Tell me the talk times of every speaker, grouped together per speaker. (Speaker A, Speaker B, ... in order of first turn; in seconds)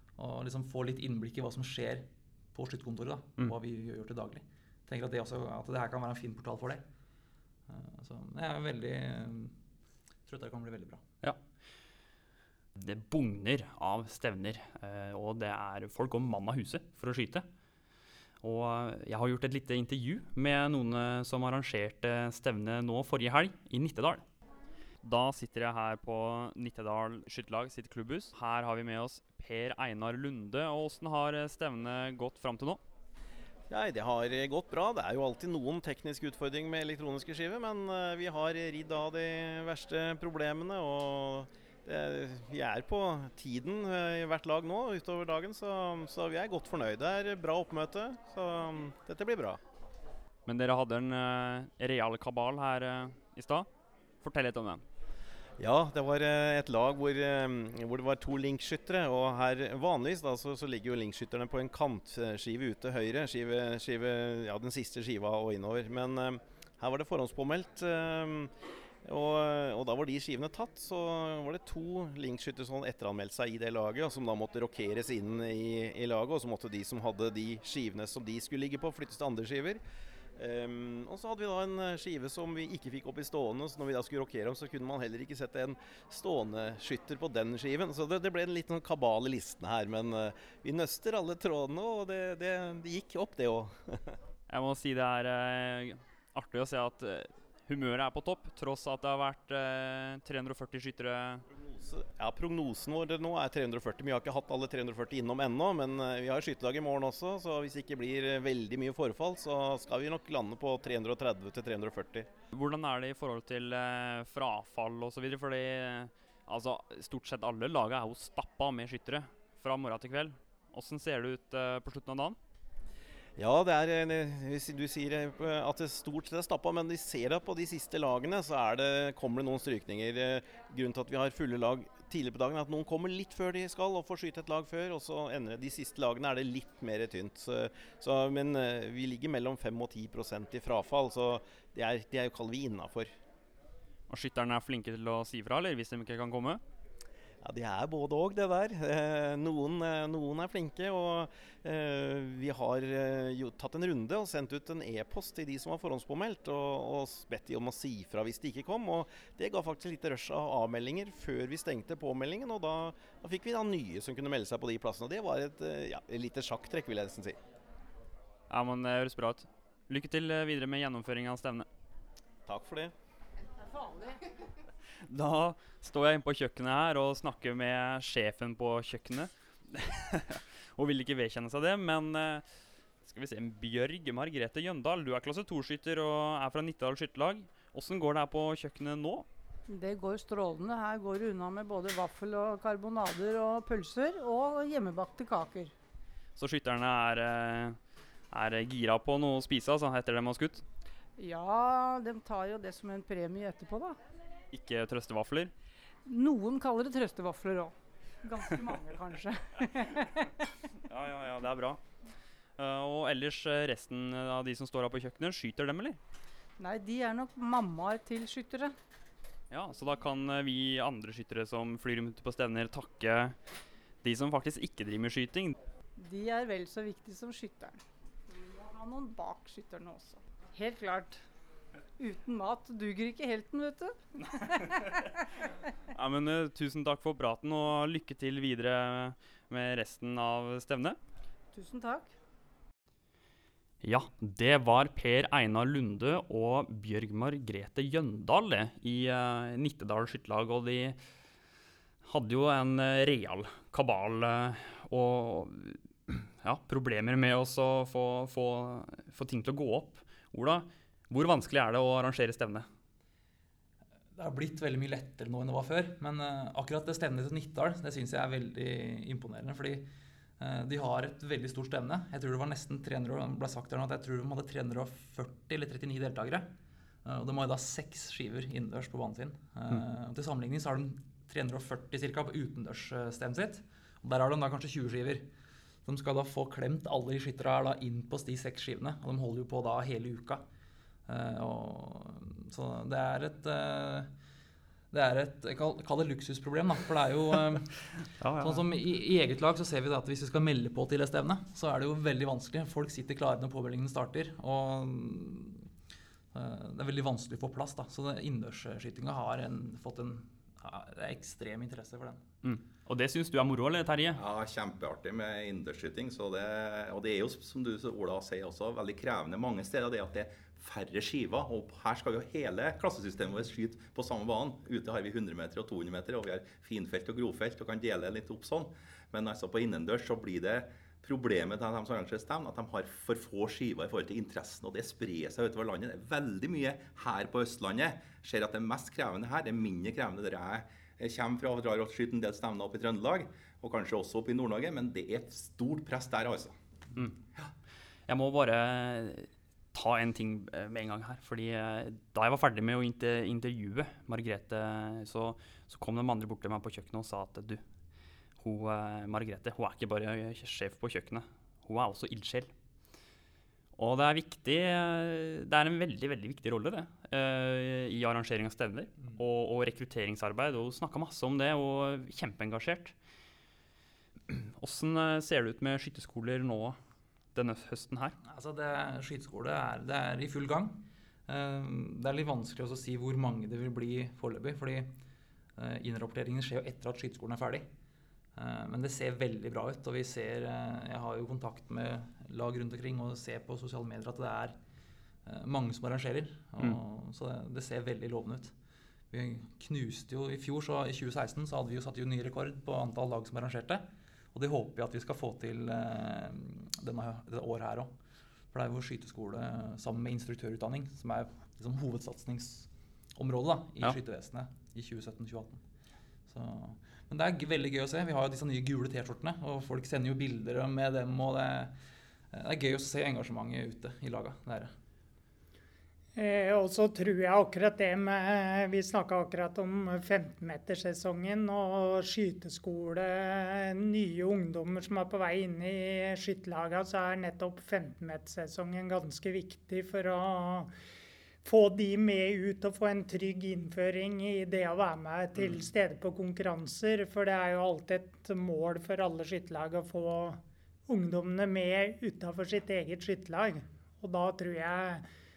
Speaker A: 0.2-6.8, 7.7-9.5, 10.3-11.0, 264.2-269.9, 270.4-276.5, 277.1-285.3, 285.9-290.4, 291.1-294.1, 294.9-305.7, 306.3-312.2, 378.2-384.9, 385.6-387.7, 388.4-394.6, 395.3-398.5, 399.1-407.9, 408.5-415.6, 416.3-421.7, 422.3-424.7
Speaker B: 12.8-17.5, 18.4-24.2, 25.0-32.8, 50.5-53.7, 54.2-54.9, 94.5-101.5, 112.5-122.4, 144.1-146.6, 168.5-171.7, 175.0-182.4, 183.1-189.3, 196.4-197.8, 198.3-200.6, 204.5-205.5, 210.8-211.8, 212.6-216.0, 219.5-223.4, 224.0-225.6, 234.5-235.0, 235.9-241.0, 243.8-251.0, 252.1-262.7, 298.2-298.6, 312.4-314.2, 348.1-357.6, 358.4-362.5, 363.8-372.9, 374.3-376.8, 377.4-378.2
Speaker C: 33.7-49.6, 55.6-68.5, 69.0-79.8, 80.4-94.2, 101.5-112.3, 123.4-143.1, 147.4-167.4, 172.5-172.9
Speaker D: 173.7-174.2, 189.7-195.7, 201.2-204.0, 206.1-210.5, 216.6-218.8, 226.0-231.2, 232.0-235.1, 241.5-242.1
Speaker E: 314.1-346.6
Speaker F: 426.2-440.7, 441.4-455.1